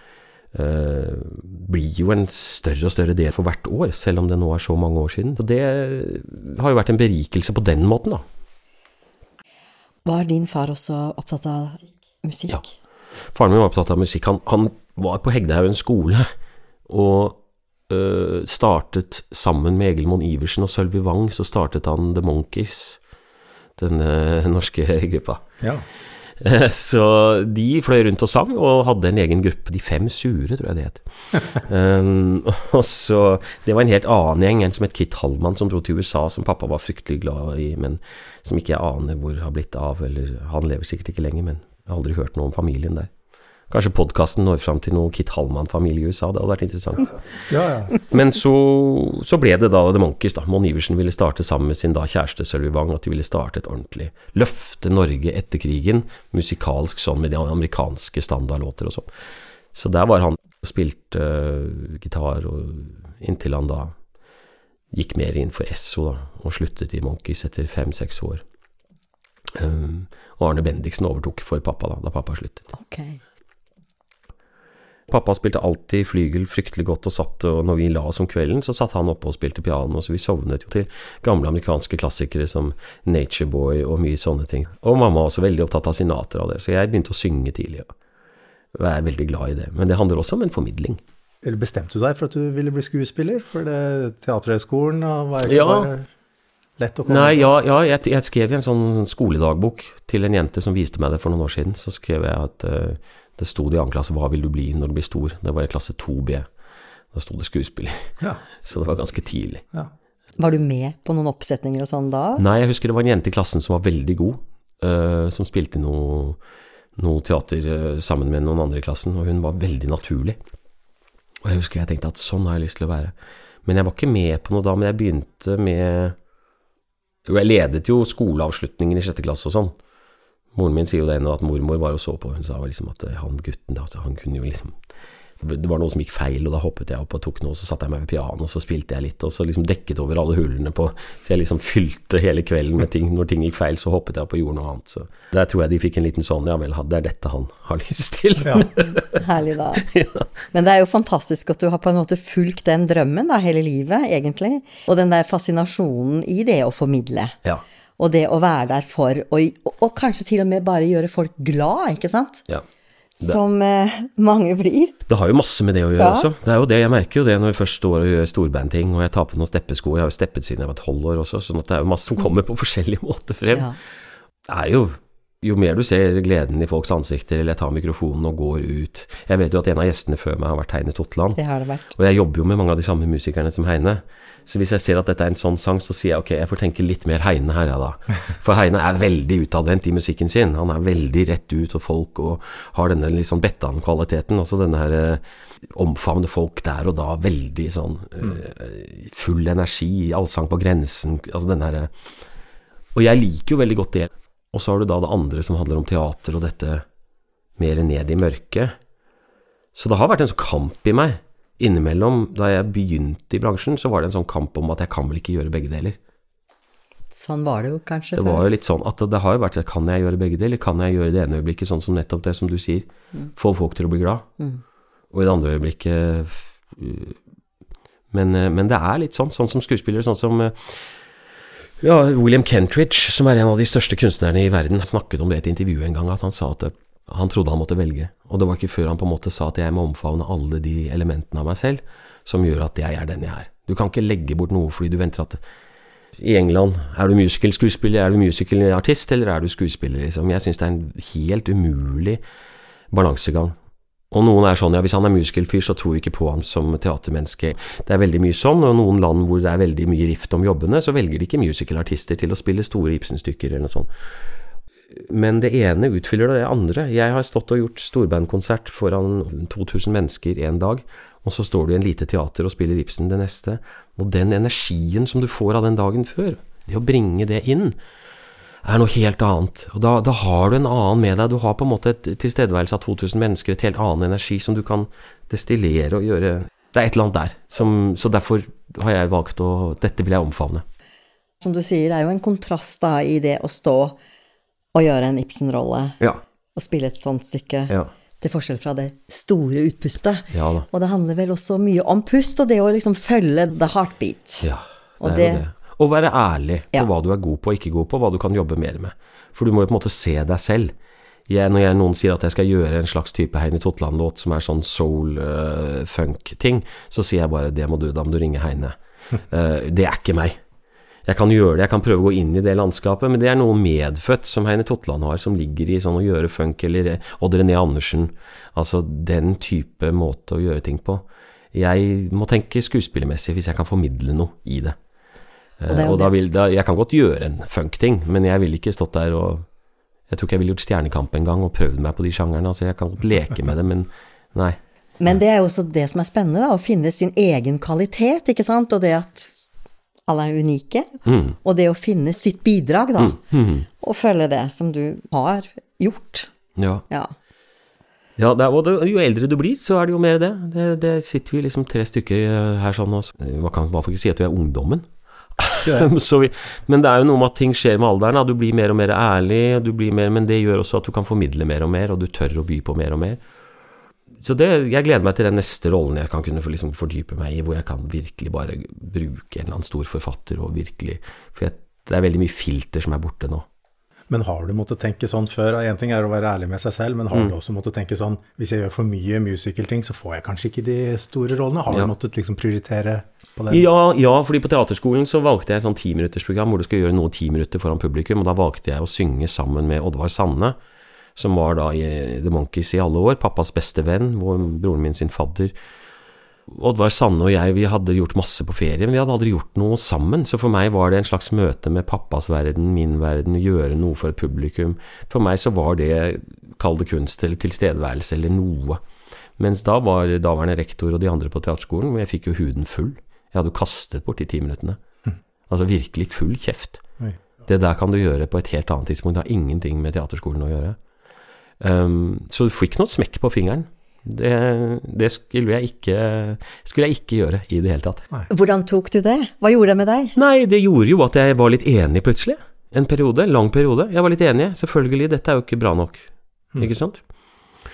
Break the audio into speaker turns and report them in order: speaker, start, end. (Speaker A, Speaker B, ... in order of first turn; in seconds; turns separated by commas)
Speaker A: 0.5-8.2, Speaker B: 10.1-12.7, Speaker A: 13.3-16.3, Speaker A: 16.9-23.0, Speaker A: 23.8-25.4, Speaker A: 26.4-43.1, Speaker A: 43.7-47.2, Speaker C: 47.5-48.0, Speaker A: 47.9-59.1, Speaker A: 59.7-64.0, Speaker A: 64.9-68.4, Speaker A: 69.5-72.7, Speaker B: 72.7-73.2, Speaker A: 75.1-87.9, Speaker A: 88.7-91.0, Speaker C: 91.4-96.1, Speaker A: 95.4-95.9, Speaker C: 96.8-97.5, Speaker A: 97.1-106.5, Speaker A: 107.1-109.6, Speaker B: 110.4-112.4, Speaker A: 112.4-116.4, Speaker A: 117.0-120.4, Speaker A: 121.4-123.1, Speaker A: 123.7-126.2, Speaker A: 127.2-129.8, Speaker A: 130.5-134.8, Speaker A: 135.4-149.2, Speaker B: 148.9-149.9, Speaker A: 149.8-150.2, Speaker B: 150.5-157.4, Speaker B: 158.0-162.4, Speaker B: 163.2-165.0, Speaker A: 165.1-173.7, Speaker B: 166.0-166.3, Speaker B: 173.5-173.8, Speaker A: 174.5-181.4, Speaker B: 181.4-181.9, Speaker A: 181.9-201.9, Speaker A: 202.9-206.8, Speaker A: 207.6-208.8, Speaker A: 209.8-216.0, Speaker B: 217.1-218.5, Speaker A: 218.2-224.3, Speaker A: 225.1-227.2, Speaker A: 228.1-231.1, Speaker A: 231.8-245.4, Speaker A: 246.2-252.2, Speaker A: 252.9-253.6, Speaker A: 254.1-263.9, Speaker A: 264.9-277.8, Speaker A: 278.6-290.6, Speaker B: 291.4-294.0, Speaker B: 294.7-296.0, Speaker B: 296.6-304.5, Speaker A: 300.3-300.7, Speaker A: 304.4-310.7, Speaker B: 305.0-305.4, Speaker A: 311.3-318.8, Speaker A: 319.3-320.4, Speaker A: 321.1-334.8, Speaker A: 335.6-339.5, Speaker B: 335.7-336.1, Speaker A: 340.1-344.6, Speaker B: 345.0-349.3, Speaker B: 350.1-350.9, Speaker A: 351.1-351.4, Speaker B: 351.4-353.2, Speaker A: 353.0-353.7, Speaker B: 353.8-356.3, Speaker A: 356.6-356.9, Speaker A: 358.2-373.2, Speaker A: 374.2-383.5, Speaker C: 384.1-393.7, Speaker A: 393.5-400.6, Speaker A: 401.2-405.5, Speaker A: 406.5-418.8, Speaker A: 419.4-424.8, Speaker A: 425.5-426.8, Speaker A: 427.5-430.8, Speaker A: 431.6-438.1, Speaker B: 438.3-440.1, Speaker A: 440.2-447.0